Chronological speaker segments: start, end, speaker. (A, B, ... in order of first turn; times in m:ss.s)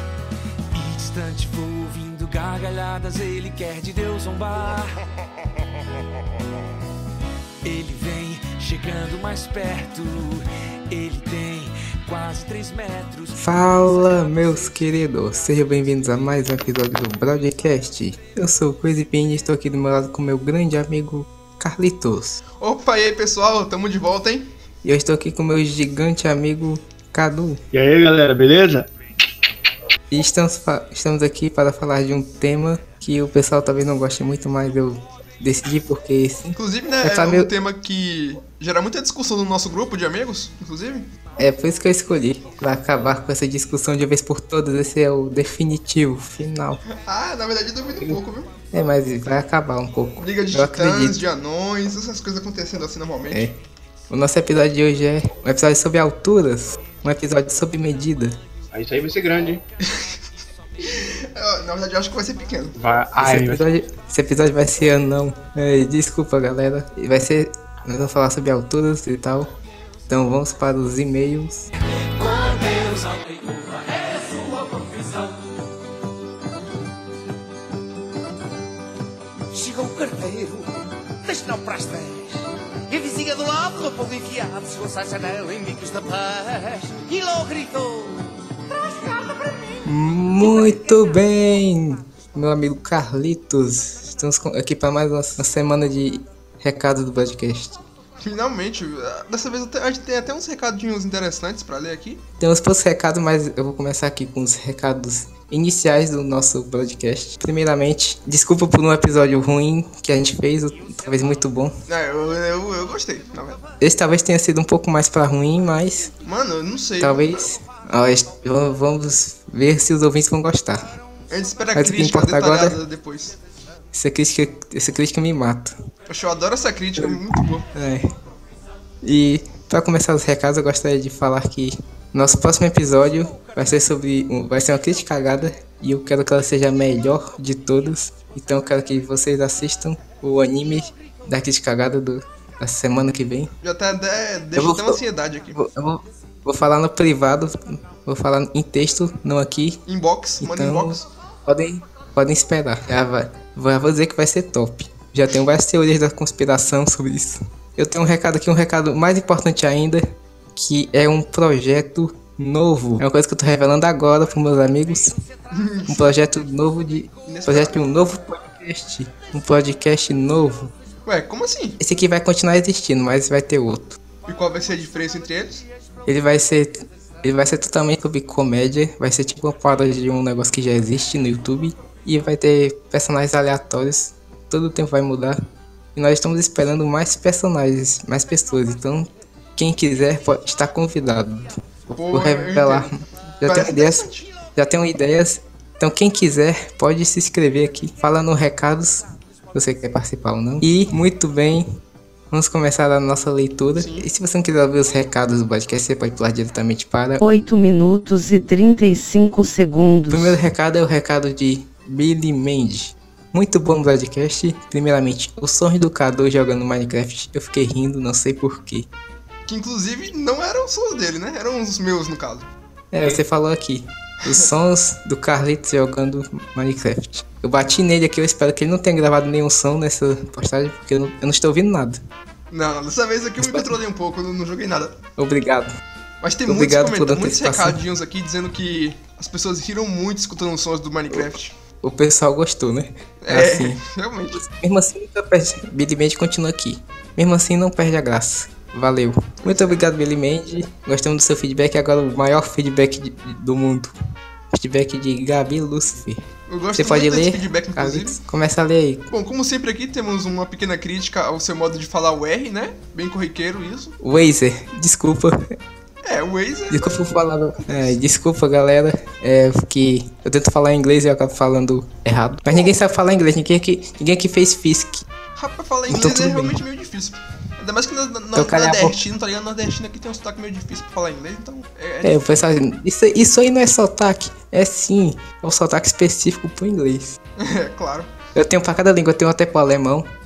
0:00.7-0:05.0 A
0:07.6-0:14.4 A
0:13.4-0:22.4 B
0:22.6-0:24.5 C
0:24.8-0:27.6 B
0:27.7-0:28.9 D
0:30.1-0:37.5 B
0:36.6-0:41.1 C
0:41.4-0:46.8 B
0:47.0-0:48.5 C
0:48.7-0:51.2 B
0:50.2-0:53.5 C
0:53.3-0:53.6 B
0:54.1-0:58.4 B
0:58.7-0:59.6 D
0:59.8-1:00.1 C
1:00.8-1:02.7 C
1:02.7-1:03.6 D
1:03.2-1:09.5 B
1:10.1-1:11.7 B
1:12.2-1:15.4 E
1:19.5-1:29.8 E
1:29.8-1:37.8 B
1:38.2-1:42.2 C
1:42.4-1:51.7 B
1:51.9-1:53.6 C
1:53.8-1:56.1 B
1:56.2-1:57.4 C
1:57.0-2:00.8 B
2:01.3-2:03.4 C
2:01.7-2:02.8 B
2:03.9-2:05.7 B
2:06.1-2:07.7 C
2:07.0-2:08.0 B
2:09.0-2:23.5 B
2:23.6-2:25.6 C
2:24.6-2:25.0 B
2:25.5-2:29.8 B
2:29.9-2:31.1 C
2:30.4-2:40.0 B
2:40.6-2:45.1 B
2:45.5-2:46.1 C
2:45.9-2:50.7 B
2:47.2-2:47.9 C
2:51.0-2:51.8 C
2:51.8-2:54.0 B
2:54.2-2:55.6 C
2:56.0-3:05.4 B
3:05.9-3:12.9 B
3:12.0-3:14.3 C
3:13.4-3:21.6 B
3:22.3-3:27.2 B
3:23.8-3:24.1 C
3:27.2-3:30.4 F
3:30.1-3:38.9 B
3:39.5-3:42.5 C
3:42.9-3:52.0 B
3:52.5-3:55.0 C
3:53.4-3:53.7 B
3:55.2-3:55.7 B
3:56.2-4:01.5 C
3:56.4-3:57.8 B
4:01.8-4:03.8 B
4:03.2-4:04.4 C
4:04.3-4:13.9 B
4:09.4-4:09.8 C
4:14.5-4:19.1 B
4:16.5-4:18.2 C
4:19.1-4:23.9 C
4:24.0-4:25.4 B
4:26.0-4:27.1 C
4:26.7-4:35.0 B
4:27.6-4:28.0 C
4:32.5-4:32.8 C
4:35.4-4:42.3 C
4:35.9-4:36.6 B
4:38.3-4:39.0 B
4:42.0-4:47.2 B
4:47.4-4:48.1 C
4:48.3-4:50.1 B